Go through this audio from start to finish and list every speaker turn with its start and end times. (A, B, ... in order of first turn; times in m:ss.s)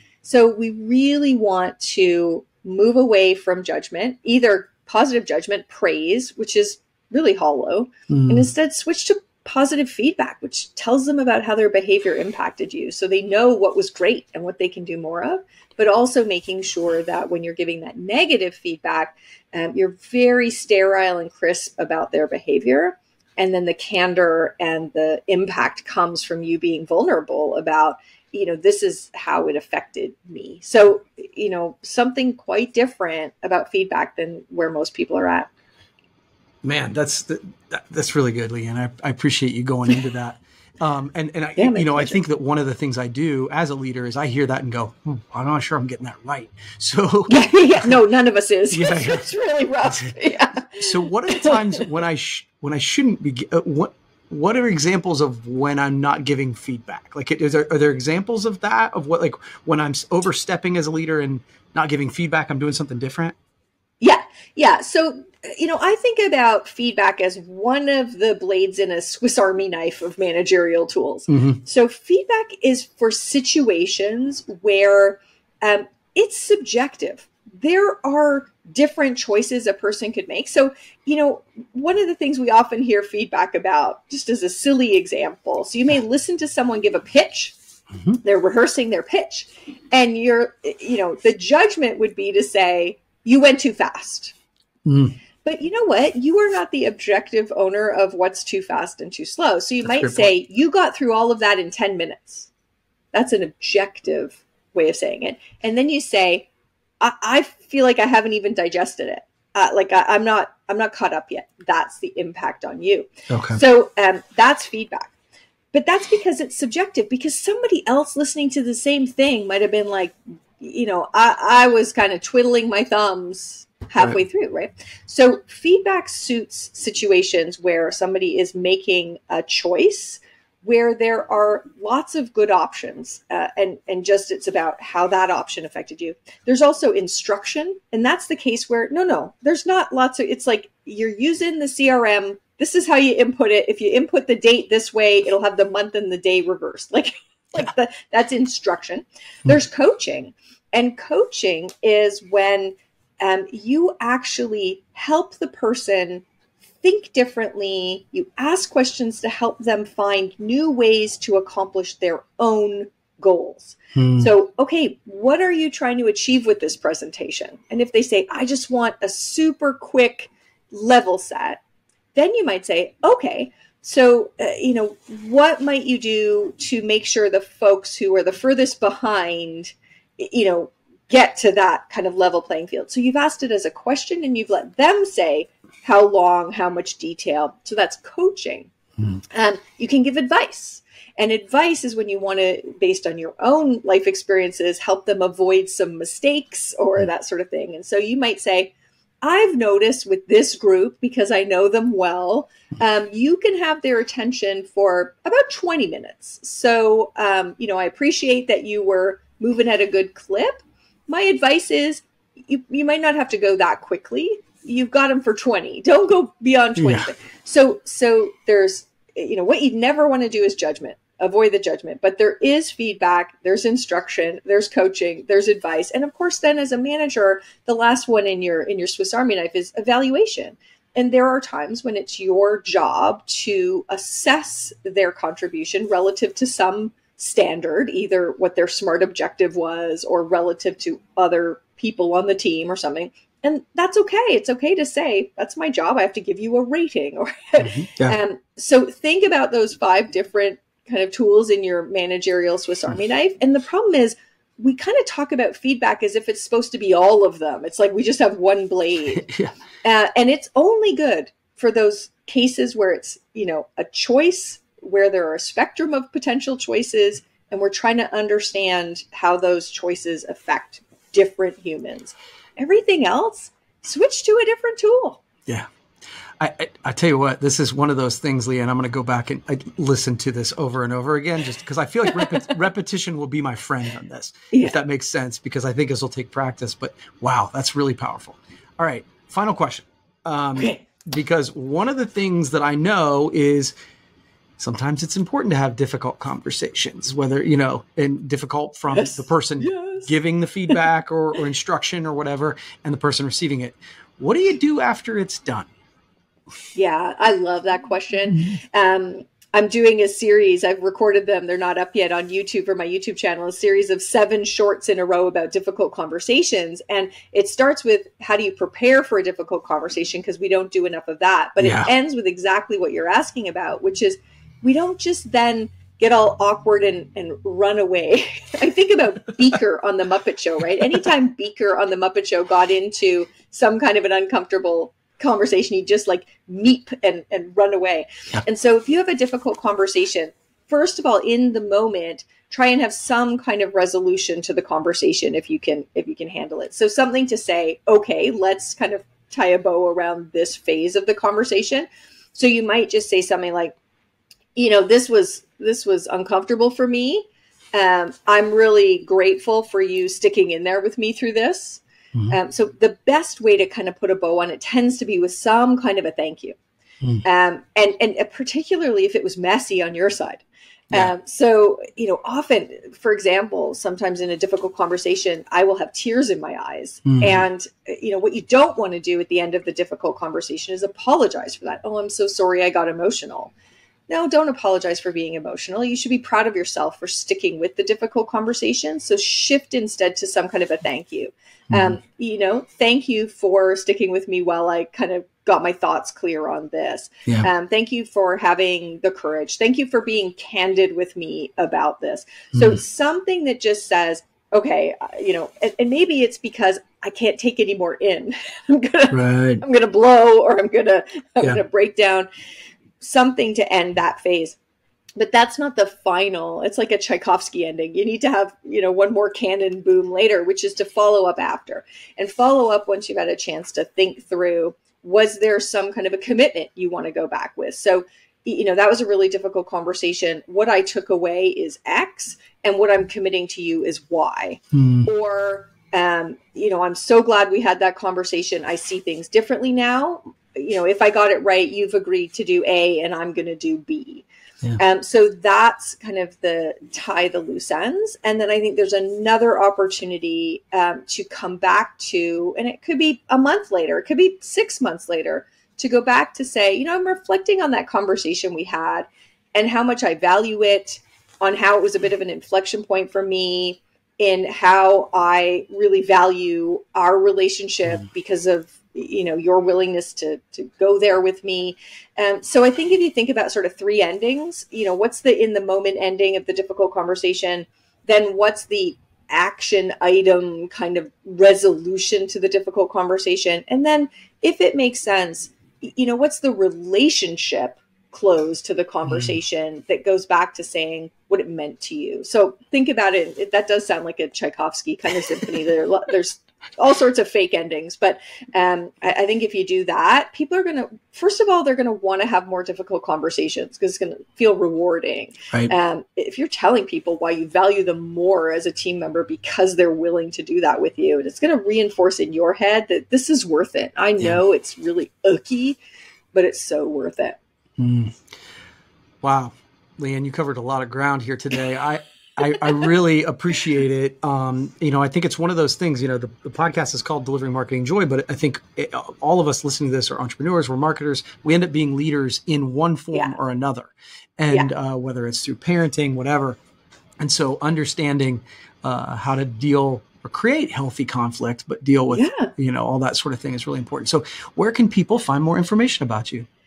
0:00.2-0:35.5 A
0:08.1-0:08.5 B
0:36.6-0:48.0 B
0:41.6-0:42.2 A
0:47.3-0:51.9 A
0:48.7-0:49.3 B
0:49.8-1:03.3 B
1:04.0-1:27.6 A
1:11.3-1:11.6 B
1:28.2-1:34.3 A
1:34.8-1:35.2 B
1:35.4-1:42.5 A
1:39.8-1:40.3 B
1:43.1-1:46.5 A
1:47.0-1:55.1 A
1:53.3-1:53.6 B
1:55.7-2:36.3 A
2:36.8-2:51.6 A
2:44.0-2:44.3 B
2:52.2-3:08.7 A
3:09.3-4:19.3 A
3:36.8-3:37.1 B
4:07.6-4:08.2 B
4:19.2-4:19.5 B
4:19.8-4:35.2 A
4:36.4-4:53.7 B
4:54.6-5:05.7 B
4:58.9-5:00.1 A
5:06.8-5:53.8 A
5:21.6-5:21.9 B
5:54.6-6:06.6 A
6:07.2-6:23.5 A
6:17.1-6:17.4 B
6:24.1-6:52.3 A
6:31.7-6:32.0 B
6:42.5-6:42.8 B
6:49.1-6:49.6 B
6:53.0-6:54.6 A
6:55.2-7:24.2 A
7:14.7-7:15.1 B
7:24.8-8:35.8 A
8:09.1-8:09.4 B
8:36.3-8:37.4 A
8:37.8-8:38.2 B
8:39.2-8:56.6 B
8:57.2-9:06.5 B
9:02.1-9:02.5 A